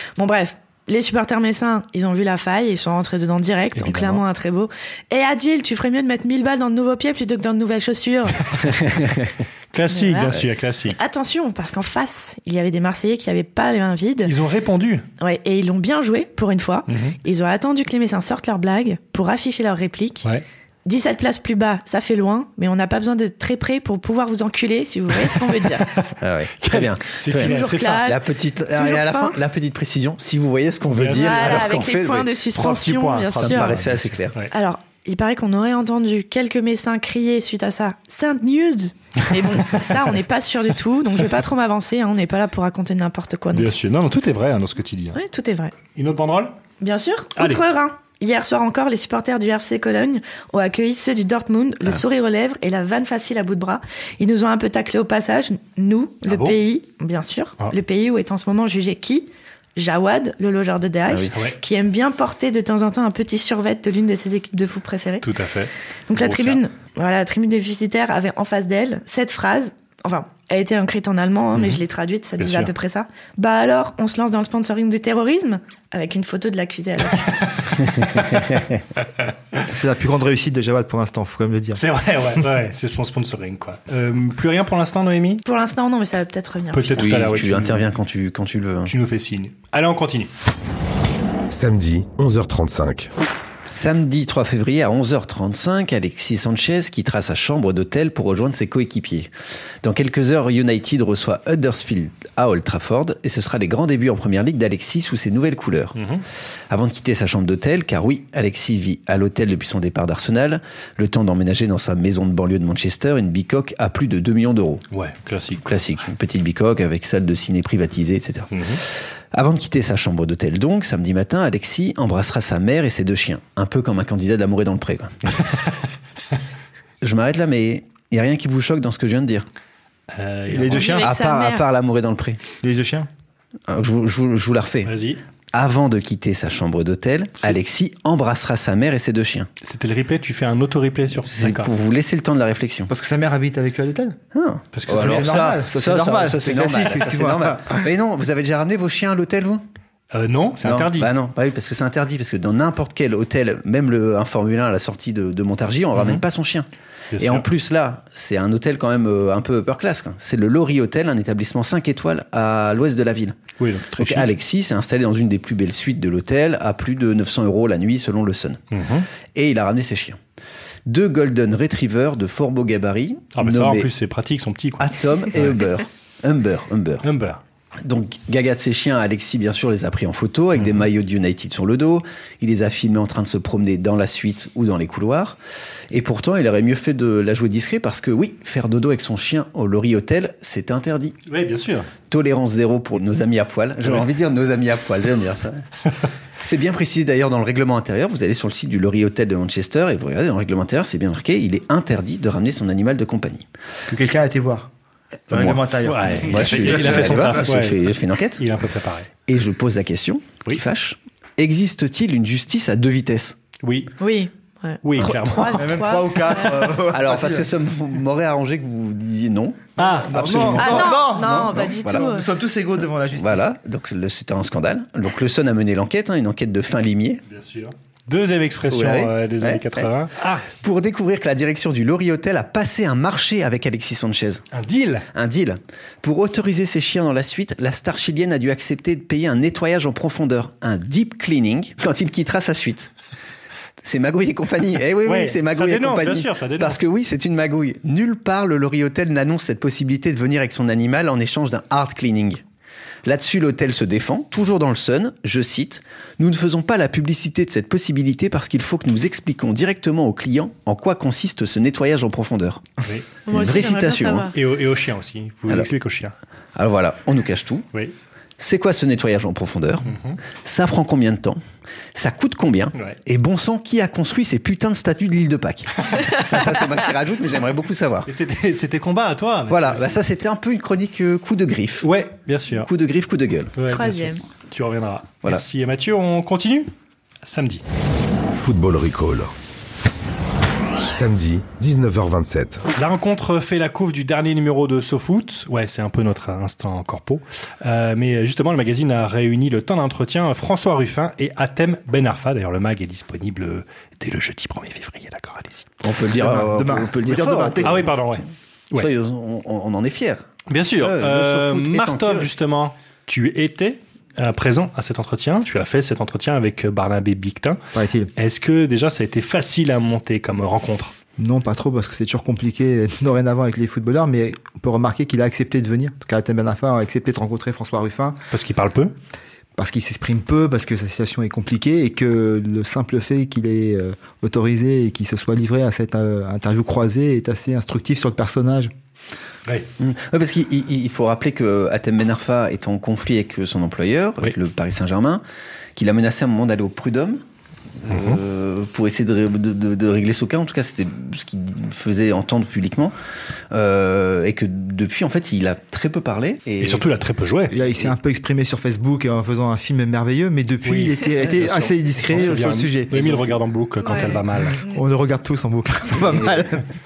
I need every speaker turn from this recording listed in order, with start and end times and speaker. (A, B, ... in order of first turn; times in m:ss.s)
0:00.2-0:08.7 A
0:03.8-0:04.1 B
0:09.7-0:11.0 C
0:09.9-0:14.4 A
0:14.2-0:15.0 C
0:15.2-0:20.3 A
0:16.9-0:17.2 C
0:20.8-0:25.9 A
0:25.3-0:28.0 C
0:26.2-0:27.5 B
0:27.3-0:28.2 A
0:28.0-0:32.3 B
0:28.7-0:29.4 A
0:30.9-0:31.7 C
0:31.1-0:33.8 A
0:32.5-0:34.5 C
0:33.3-0:34.3 B
0:34.5-0:43.7 A
0:43.5-0:45.2 C
0:45.1-0:45.7 A
0:45.9-0:46.5 C
0:46.8-1:05.3 A
0:47.4-0:47.6 C
0:56.2-0:56.6 C
1:01.1-1:01.3 B
1:01.3-1:01.6 C
1:05.2-1:06.6 C
1:06.1-1:17.4 A
1:11.5-1:11.8 C
1:12.4-1:12.7 C
1:17.3-1:18.5 C
1:19.2-1:19.6 C
1:19.7-1:21.8 D
1:21.7-1:25.4 C
1:25.4-1:27.0 A
1:26.7-1:27.8 C
1:27.0-1:28.9 B
1:28.8-1:30.3 C
1:31.5-1:33.1 E
1:33.6-1:39.3 B
1:39.8-1:46.0 B
1:46.0-1:46.2 C
1:46.7-1:54.8 B
1:54.9-1:55.6 C
1:55.6-1:58.8 B
1:58.5-1:58.8 C
1:59.3-2:05.4 B
2:07.0-2:09.4 B
2:10.1-2:11.0 C
2:10.5-2:11.0 D
2:10.7-2:11.6 A
2:10.8-2:12.4 B
2:12.6-2:13.1 D
2:13.7-2:14.9 B
2:14.8-2:15.2 C
2:15.5-2:19.5 B
2:19.6-2:21.7 C
2:21.2-2:22.9 B
2:22.9-2:24.2 D
2:24.3-2:29.6 B
2:24.7-2:25.6 C
2:24.8-2:27.8 D
2:30.1-2:31.1 C
2:30.6-2:36.7 B
2:36.0-2:36.2 C
2:37.1-2:37.4 C
2:37.2-2:43.4 B
2:43.6-2:44.3 C
2:44.0-2:48.6 B
2:48.7-2:49.1 C
2:49.3-2:50.2 B
2:50.8-2:53.9 B
2:53.3-2:55.6 C
2:54.8-2:57.0 B
2:57.0-2:57.4 C
2:57.8-3:05.4 B
3:00.6-3:00.8 C
3:05.9-3:11.2 B
3:11.3-3:11.9 C
3:12.1-3:15.6 B
3:16.4-3:23.5 B
3:23.9-3:24.7 D
3:25.3-3:28.4 B
3:25.3-3:27.4 D
3:25.8-3:29.1 C
3:29.2-3:33.4 B
3:33.6-3:33.9 C
3:34.0-3:36.7 A
3:34.8-3:35.9 C
3:35.5-3:37.5 D
3:36.9-3:42.2 B
3:39.8-3:40.7 C
3:40.1-3:43.5 D
3:40.6-3:42.2 A
3:43.1-3:47.2 B
3:47.3-3:50.4 C
3:48.7-3:49.9 B
3:50.5-3:54.4 B
3:54.5-3:55.0 C
3:55.1-4:02.9 B
4:03.8-4:12.4 B
4:05.0-4:06.8 C
4:13.0-4:22.7 B
4:23.3-4:24.3 A
4:23.3-4:24.3 B
4:24.3-4:26.1 C
4:26.6-4:27.6 B
4:28.4-4:31.4 B
4:29.8-4:30.2 C
4:31.9-4:38.1 B
4:38.0-4:40.0 C
4:39.5-4:41.9 B
4:41.8-4:42.7 C
4:42.5-4:43.5 B
4:43.6-4:46.7 C
4:43.6-4:44.2 A
4:47.2-4:47.6 C
4:48.3-4:49.3 E
4:50.9-4:52.6 E
4:52.7-5:05.7 C
5:05.8-5:07.9 B
5:06.1-5:07.9 D
5:07.6-5:08.9 C
5:08.7-5:12.3 B
5:10.5-5:17.6 C
5:17.7-5:18.1 D
5:18.2-5:20.9 C
5:21.2-5:28.2 D
5:28.3-5:28.9 C
5:29.6-5:38.7 D
5:39.8-5:45.2 B
5:45.8-5:47.2 B
5:47.8-5:52.9 B
5:47.9-5:48.2 C
5:53.5-5:56.9 B
5:56.6-5:57.5 C
5:57.5-6:03.3 D
6:00.6-6:04.7 C
6:03.8-6:04.7 A
6:04.6-6:06.7 D